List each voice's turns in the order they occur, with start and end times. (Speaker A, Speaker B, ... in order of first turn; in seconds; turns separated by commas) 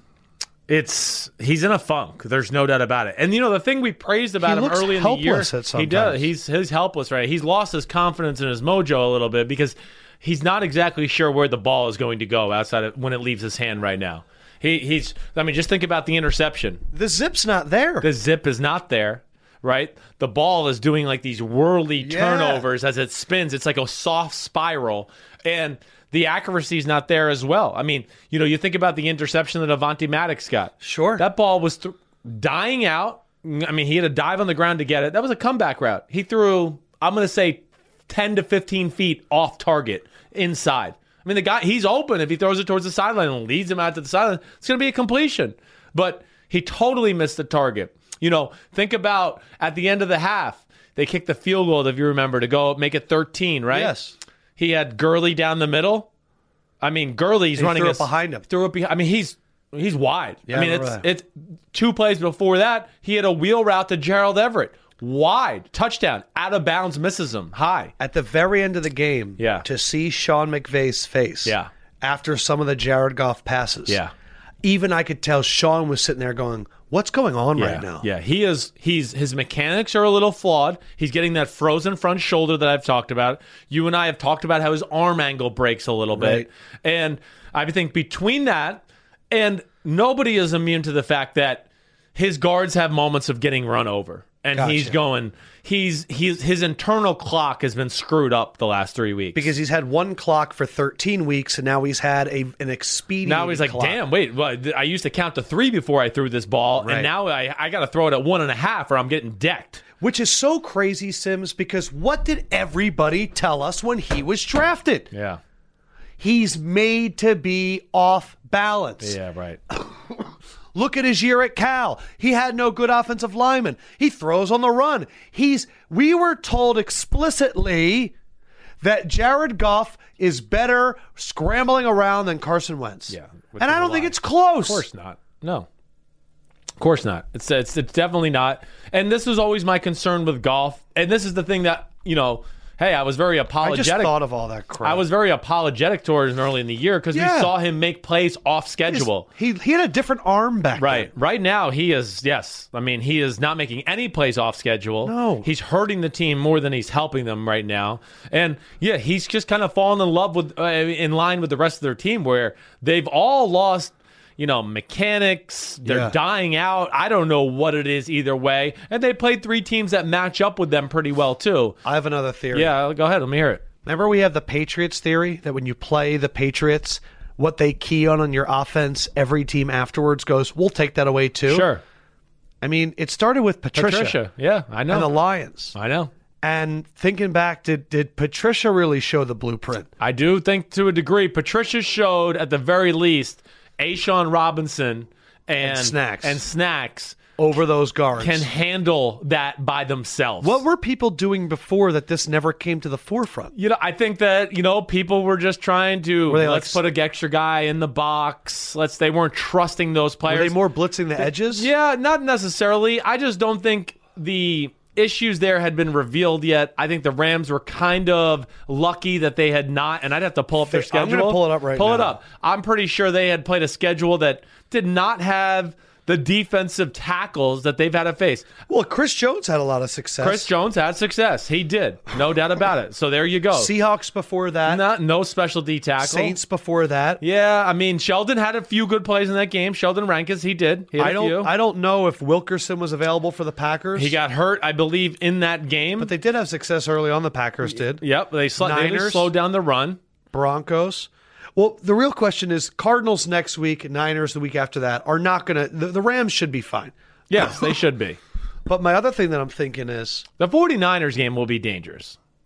Speaker A: 0.7-16.8, Speaker B: 4.4-6.3, Speaker B: 16.9-18.1, Speaker A: 18.0-54.0, Speaker B: 22.0-22.6, Speaker B: 30.8-31.2, Speaker B: 53.7-54.1, Speaker A: 54.6-56.1, Speaker A: 56.8-67.9, Speaker B: 57.6-58.5, Speaker B: 60.5-61.1, Speaker B: 68.0-74.0, Speaker A: 69.4-69.7, Speaker B: 74.6-78.1, Speaker A: 77.6-99.5, Speaker B: 86.2-86.5, Speaker B: 94.5-95.0, Speaker B: 99.3-104.0, Speaker A: 103.2-109.8, Speaker B: 106.8-107.1, Speaker B: 110.0-115.1, Speaker A: 115.1-115.4, Speaker B: 116.2-119.2, Speaker A: 119.0-119.6, Speaker B: 119.7-128.2, Speaker B: 128.8-134.9, Speaker A: 133.1-135.7, Speaker A: 136.8-144.1, Speaker B: 143.6-145.0, Speaker A: 144.8-149.3, Speaker B: 147.1-147.5, Speaker B: 148.9-151.1, Speaker A: 150.8-171.8, Speaker B: 155.0-155.5, Speaker B: 165.8-166.2, Speaker B: 171.8-172.7, Speaker A: 172.5-173.7, Speaker B: 173.8-181.7, Speaker A: 181.5-181.8, Speaker B: 182.6-184.2, Speaker A: 183.8-185.2, Speaker B: 184.9-185.8, Speaker A: 185.7-186.1, Speaker B: 186.4-189.9, Speaker A: 190.0-197.2, Speaker B: 195.6-196.4, Speaker B: 197.4-198.5, Speaker A: 198.2-200.6, Speaker B: 200.4-203.5, Speaker A: 203.5-210.6, Speaker B: 206.3-206.8, Speaker B: 210.3-211.7, Speaker A: 211.2-228.5, Speaker B: 220.6-222.2, Speaker B: 228.7-230.5, Speaker A: 230.2-233.7, Speaker B: 233.5-234.8, Speaker A: 234.7-236.4, Speaker B: 236.0-237.2, Speaker A: 237.2-241.5, Speaker B: 241.0-244.2, Speaker A: 243.9-246.1, Speaker B: 246.0-248.0, Speaker A: 247.7-250.0, Speaker B: 248.6-249.3, Speaker B: 250.3-257.7, Speaker A: 257.3-258.2, Speaker B: 258.7-260.3, Speaker A: 260.4-262.2